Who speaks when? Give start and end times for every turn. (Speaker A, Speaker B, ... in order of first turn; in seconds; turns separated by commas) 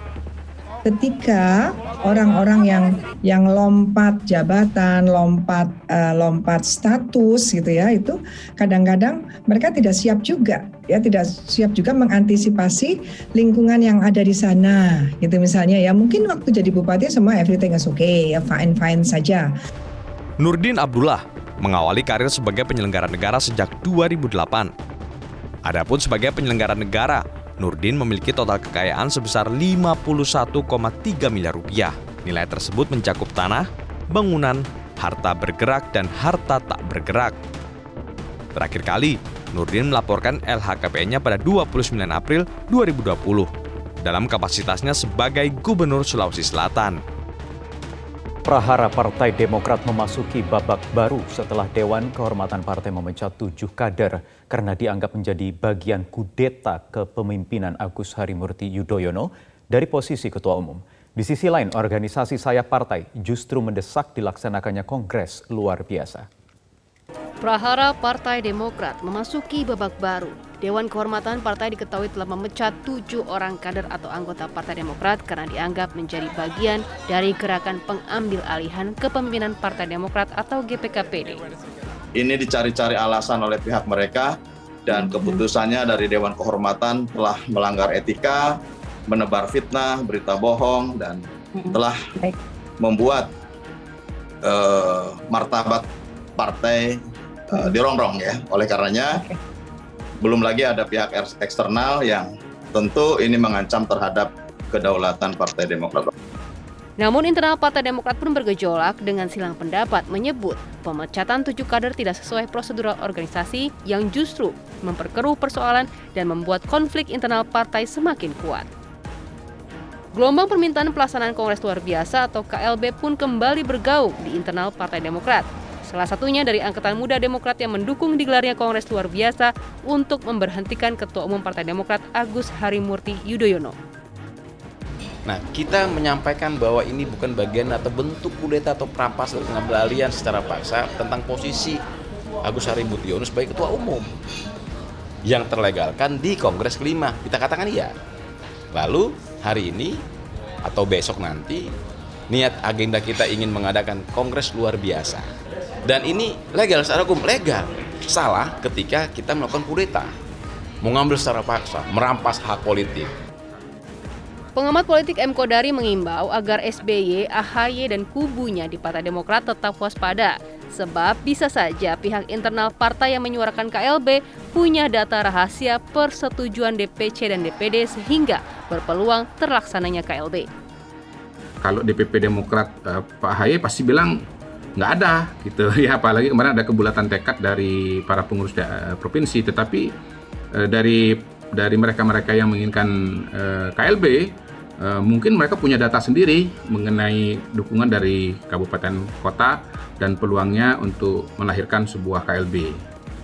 Speaker A: 0.8-19.5, Speaker B: 20.4-24.7, Speaker B: 25.6-37.4, Speaker B: 38.6-43.5, Speaker B: 44.0-47.0, Speaker C: 48.5-66.3, Speaker D: 67.4-81.4, Speaker E: 82.2-92.0, Speaker E: 92.8-93.3, Speaker E: 94.4-95.9, Speaker E: 96.4-97.0, Speaker E: 97.5-99.2, Speaker E: 100.2-106.1, Speaker D: 107.0-118.7, Speaker D: 120.1-133.8, Speaker F: 135.3-141.8, Speaker F: 142.4-144.1, Speaker F: 145.2-147.9, Speaker F: 148.7-150.0, Speaker F: 150.6-151.8, Speaker F: 152.3-155.3, Speaker F: 155.8-160.1, Speaker F: 160.8-163.1, Speaker D: 164.6-180.5, Speaker G: 181.6-184.1, Speaker G: 184.8-189.9, Speaker G: 190.7-194.3, Speaker G: 194.9-202.8